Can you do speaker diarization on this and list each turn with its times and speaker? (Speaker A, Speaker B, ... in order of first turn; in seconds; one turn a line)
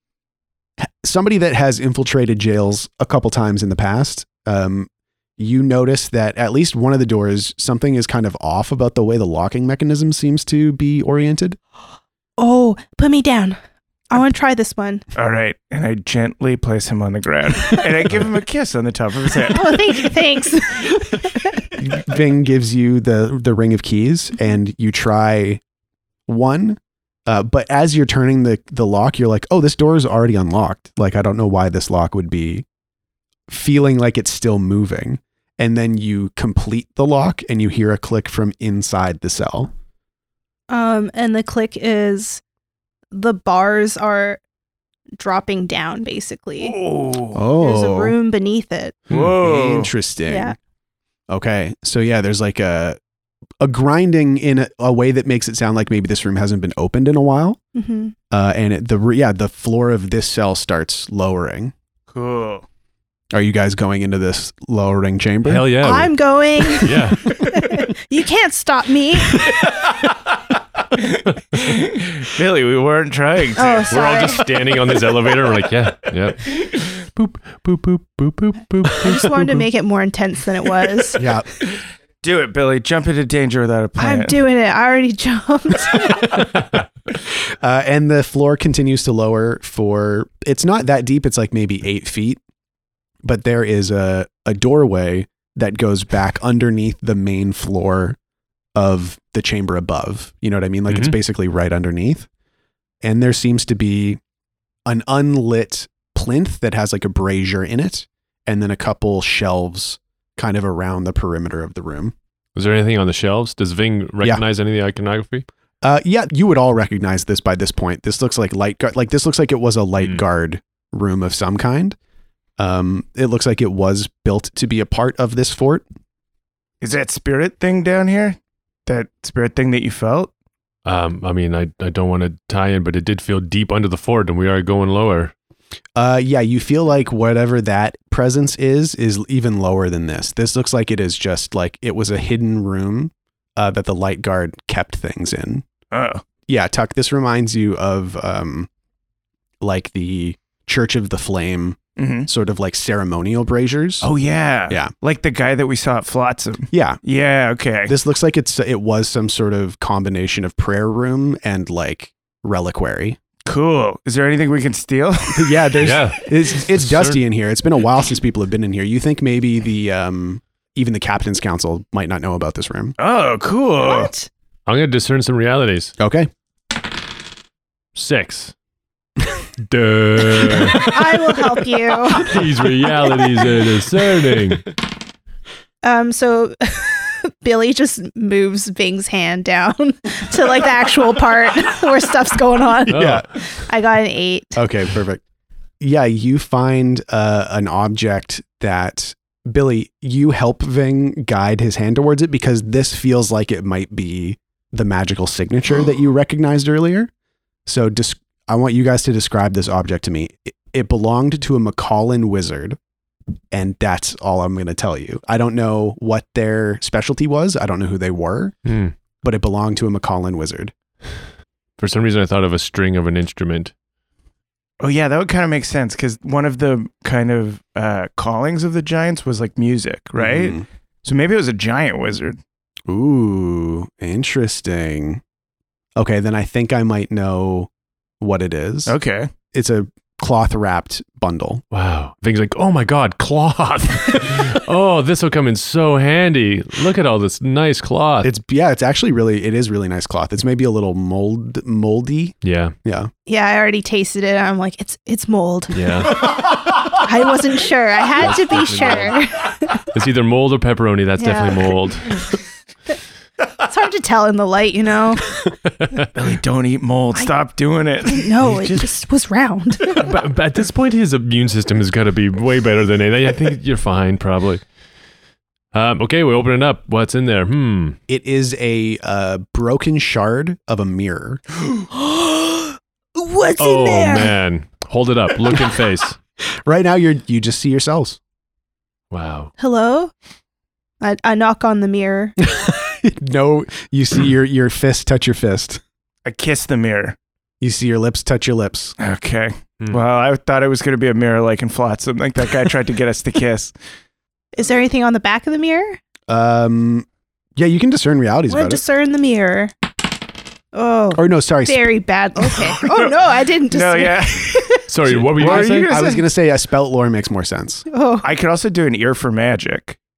Speaker A: 0.8-11.6
Speaker B: 12.4-13.6
Speaker B: 14.1-15.1
Speaker C: 15.2-20.1
Speaker B: 19.5-21.7
Speaker A: 21.7-25.6
Speaker A: 26.3-32.6
Speaker A: 33.5-39.7
Speaker B: 40.7-42.4
Speaker B: 43.1-44.4
Speaker B: 45.2-46.8
Speaker C: 46.6-47.4
Speaker A: 47.3-48.2
Speaker B: 47.5-49.0
Speaker C: 49.1-49.9
Speaker A: 49.4-50.6
Speaker B: 50.3-50.6
Speaker A: 51.3-53.0
Speaker A: 53.6-57.6
Speaker B: 57.8-58.1
Speaker A: 58.3-61.7
Speaker C: 62.1-62.7
Speaker A: 63.3-65.7
Speaker D: 65.5-66.2
Speaker B: 65.8-69.5
Speaker D: 66.7-67.4
Speaker C: 69.4-70.2
Speaker C: 70.9-73.9
Speaker B: 73.6-74.5
Speaker D: 73.9-76.5
Speaker D: 77.1-79.7
Speaker B: 78.9-81.3
Speaker A: 81.2-81.5
Speaker C: 81.6-84.4
Speaker B: 84.0-86.5
Speaker A: 87.4-92.4
Speaker A: 93.2-98.2
Speaker A: 98.8-102.3
Speaker D: 100.9-101.2
Speaker A: 103.0-104.2
Speaker A: 104.9-112.2
Speaker D: 112.5-115.5
Speaker A: 115.8-122.0
Speaker A: 122.6-125.8
Speaker C: 126.8-130.3
Speaker D: 130.8-135.3
Speaker A: 136.0-145.7
Speaker C: 145.9-146.2
Speaker A: 146.5-148.7
Speaker A: 149.6-154.1
Speaker C: 152.0-152.3
Speaker C: 154.0-157.9
Speaker A: 156.7-157.0
Speaker A: 157.9-163.2
Speaker C: 163.5-165.7
Speaker A: 165.3-172.9
Speaker D: 165.8-167.2
Speaker C: 173.0-174.1
Speaker B: 173.8-174.3
Speaker D: 174.7-175.9
Speaker A: 176.0-176.3
Speaker D: 177.9-178.5
Speaker D: 179.6-181.2
Speaker B: 180.8-182.5
Speaker D: 182.1-184.7
Speaker B: 185.8-194.6
Speaker D: 192.9-193.3
Speaker A: 192.9-193.3
Speaker A: 194.6-195.2
Speaker A: 195.8-207.1
Speaker A: 207.7-212.8
Speaker A: 213.5-218.6
Speaker D: 218.7-218.9
Speaker A: 219.2-220.7
Speaker D: 221.8-223.7
Speaker C: 224.8-232.4
Speaker A: 230.2-230.7
Speaker A: 232.9-235.2
Speaker A: 236.0-238.9
Speaker C: 238.9-239.3
Speaker A: 239.5-241.6
Speaker D: 241.7-248.3
Speaker A: 248.2-253.1
Speaker D: 252.4-252.8
Speaker B: 253.3-259.8
Speaker D: 255.7-256.3
Speaker D: 258.2-259.2
Speaker D: 259.9-262.2
Speaker B: 261.2-261.8
Speaker B: 263.7-265.4
Speaker D: 265.8-266.1
Speaker C: 266.1-268.3
Speaker B: 268.1-270.1
Speaker D: 268.4-268.9
Speaker D: 270.0-274.6
Speaker D: 275.7-278.0
Speaker A: 278.1-281.4
Speaker B: 281.9-284.4
Speaker D: 283.6-286.2
Speaker A: 286.6-288.2
Speaker D: 289.1-289.5
Speaker B: 289.6-290.1
Speaker B: 291.0-292.4
Speaker A: 292.4-295.8
Speaker C: 296.2-297.2
Speaker A: 297.6-298.9
Speaker C: 299.0-303.7
Speaker B: 304.5-306.0
Speaker A: 306.3-308.8
Speaker B: 308.5-309.7
Speaker B: 310.7-314.8
Speaker A: 311.1-311.9
Speaker C: 312.6-316.3
Speaker D: 314.9-315.9
Speaker A: 315.3-317.9
Speaker B: 317.9-318.3
Speaker C: 318.2-320.0